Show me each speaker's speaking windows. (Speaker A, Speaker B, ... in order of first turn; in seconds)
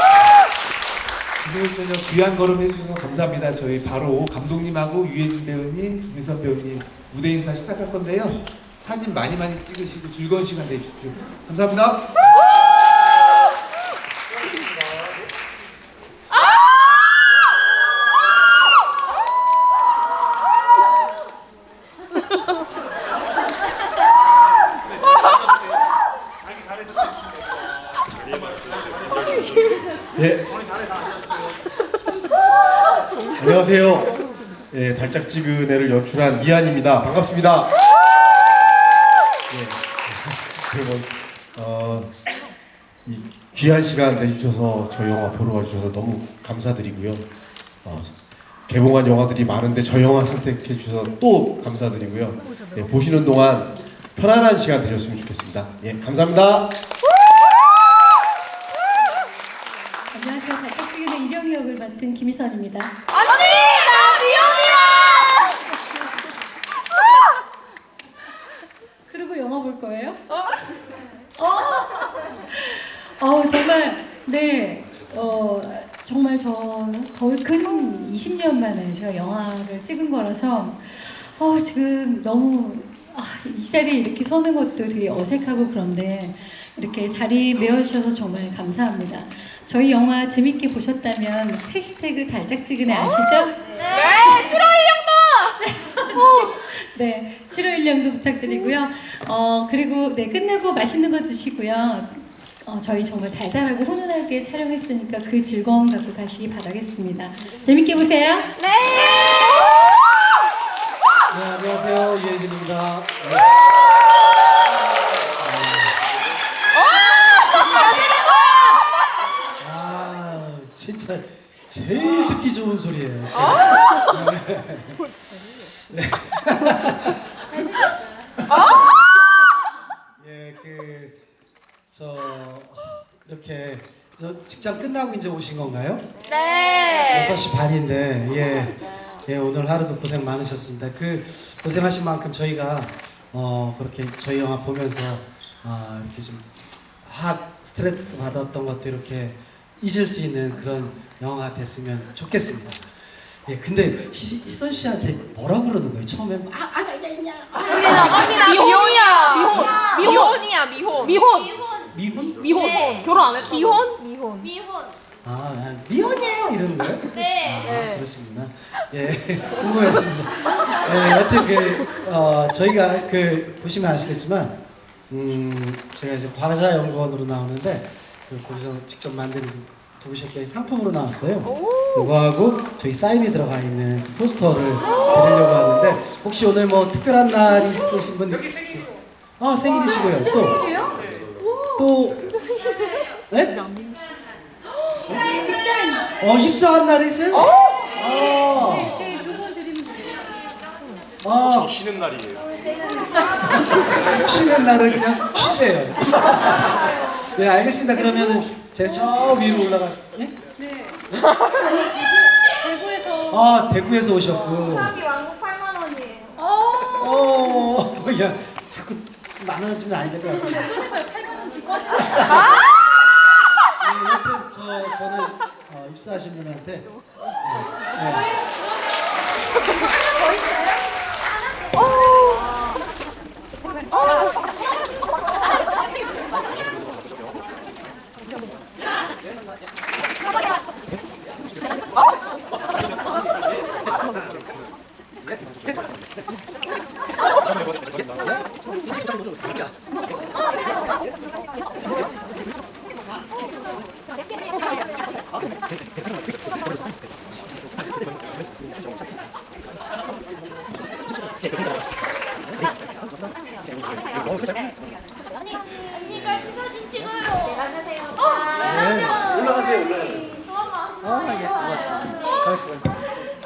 Speaker A: 1.4-12.0
Speaker B: 30.2-30.6, 33.4-34.2, 34.7-37.7, 39.5-42.1, 43.1-47.3, 47.9-48.1, 48.7-56.7
Speaker C: 60.1-62.9, 69.1-70.2, 71.4-94.8, 95.6-108.5, 127.5-128.3, 190.6-190.9, 195.1-196.2, 198.0-200.5, 202.7-203.8, 210.6-213.5, 216.4-217.1
Speaker D: 63.5-65.0, 93.9-95.4, 108.6-109.3, 136.3-137.3, 157.7-161.6, 162.5-164.5, 215.1-216.0, 266.0-269.2
Speaker E: 111.3-113.5, 115.4-116.0, 119.6-125.0, 125.6-127.2, 130.2-131.2, 131.9-136.1, 137.1-146.5, 147.0-158.5, 161.9-162.7, 165.2-174.6, 175.1-190.7, 191.8-192.3, 193.3-193.6, 196.2-198.9, 201.2-202.0, 203.4-210.3, 213.3-215.0, 217.0-220.8, 222.2-222.5, 223.8-226.9, 227.4-228.3, 266.1-266.6, 268.6-270.3, 271.0-273.1